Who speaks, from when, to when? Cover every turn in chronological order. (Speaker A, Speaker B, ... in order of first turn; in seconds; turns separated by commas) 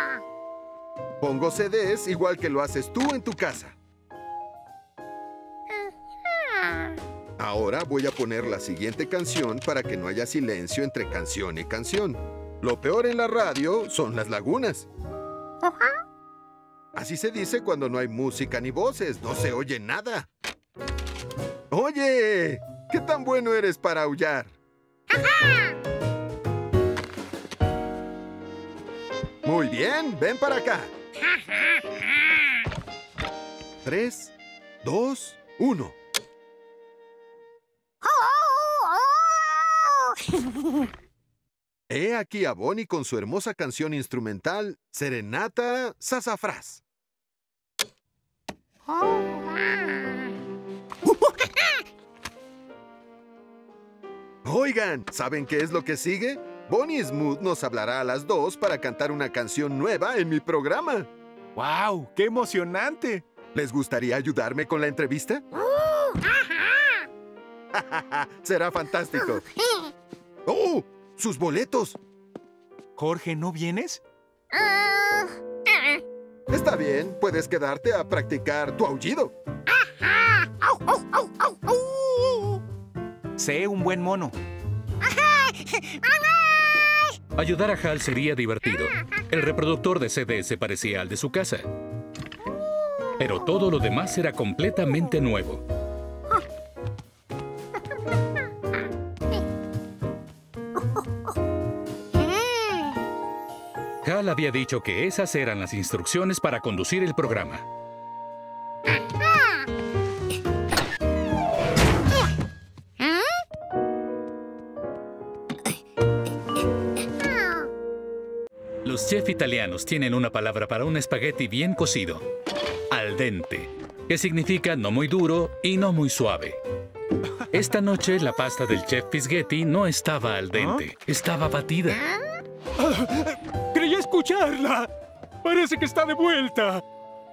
Speaker A: 1.2-3.8, Speaker A: 7.4-14.9, Speaker A: 16.9-20.3, Speaker A: 21.7-24.6, Speaker A: 29.4-30.9, Speaker A: 33.8-34.3, Speaker A: 34.8-36.0, Speaker A: 41.9-46.8, Speaker A: 54.5-61.1, Speaker B: 61.6-63.2, Speaker A: 63.5-65.4, Speaker A: 67.7-69.4, Speaker A: 70.5-72.0, Speaker B: 73.0-74.0, Speaker A: 76.5-79.3, Speaker B: 83.4-84.4, Speaker C: 87.4-91.7, Speaker C: 93.2-95.6, Speaker C: 104.0-107.7, Speaker C: 118.8-122.3, Speaker C: 122.9-126.6, Speaker C: 127.5-132.0, Speaker D: 132.8-134.9, Speaker D: 135.4-136.8